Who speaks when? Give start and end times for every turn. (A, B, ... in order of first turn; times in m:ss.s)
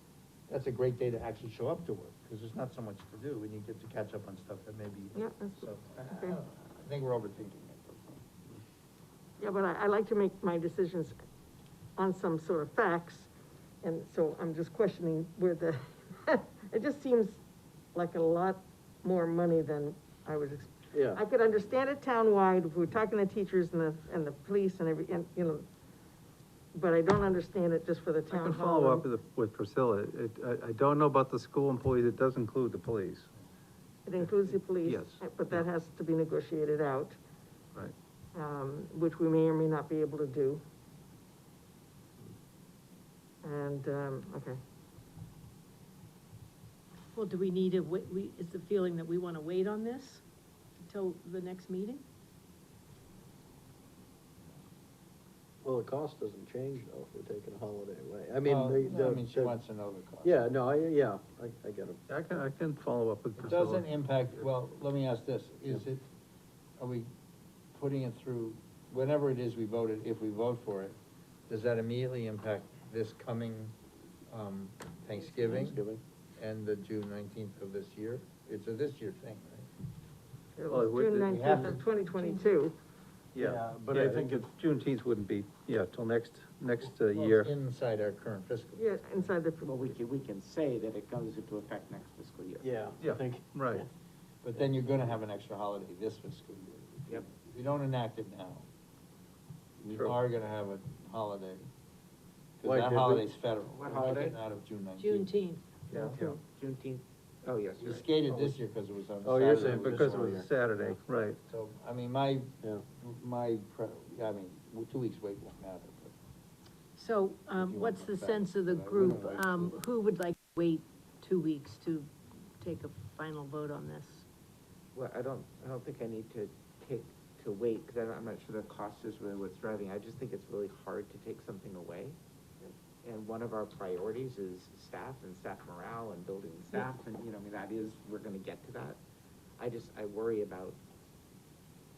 0:00.5-0:08.4 A
0:05.2-0:06.4 B
0:09.4-0:11.2 B
0:12.0-0:13.3 B
0:13.8-0:17.4 B
0:17.9-0:25.6 B
0:20.9-0:21.2 C
0:26.7-0:29.1 B
0:28.3-0:33.3 D
0:34.1-0:37.2 B
0:34.2-0:35.6 D
0:38.4-0:40.6 B
0:43.4-0:44.6 B
0:47.1-0:50.2 E
0:50.8-0:52.0 E
0:55.6-0:59.6 C
0:58.4-1:00.5 A
1:00.2-1:02.0 C
1:02.1-1:03.9 D
1:03.4-1:06.1 A
1:06.8-1:07.1 A
1:07.7-1:11.0 A
1:11.5-1:13.7 A
1:14.3-1:19.7 A
1:15.4-1:16.0 F
1:20.6-1:22.8 B
1:20.7-1:21.8 D
1:21.3-1:21.8 A
1:22.2-1:22.5 E
1:23.4-1:27.5 D
1:23.4-1:24.5 C
1:27.1-1:29.3 A
1:28.8-1:29.7 B
1:29.6-1:32.7 F
1:32.6-1:33.9 C
1:33.0-1:33.8 D
1:34.4-1:38.7 A
1:39.8-1:41.7 A
1:42.6-1:45.3 A
1:42.6-1:43.3 C
1:43.7-1:44.4 F
1:45.0-1:46.4 E
1:45.9-1:46.2 A
1:45.9-1:48.1 F
1:47.8-1:50.4 A
1:48.3-1:48.6 C
1:49.2-1:50.5 C
1:49.8-1:51.4 D
1:51.5-1:56.1 A
1:57.0-2:04.3 E
1:57.6-1:59.8 A
2:05.0-2:12.2 F
2:13.0-2:19.0 F
2:19.6-2:20.8 F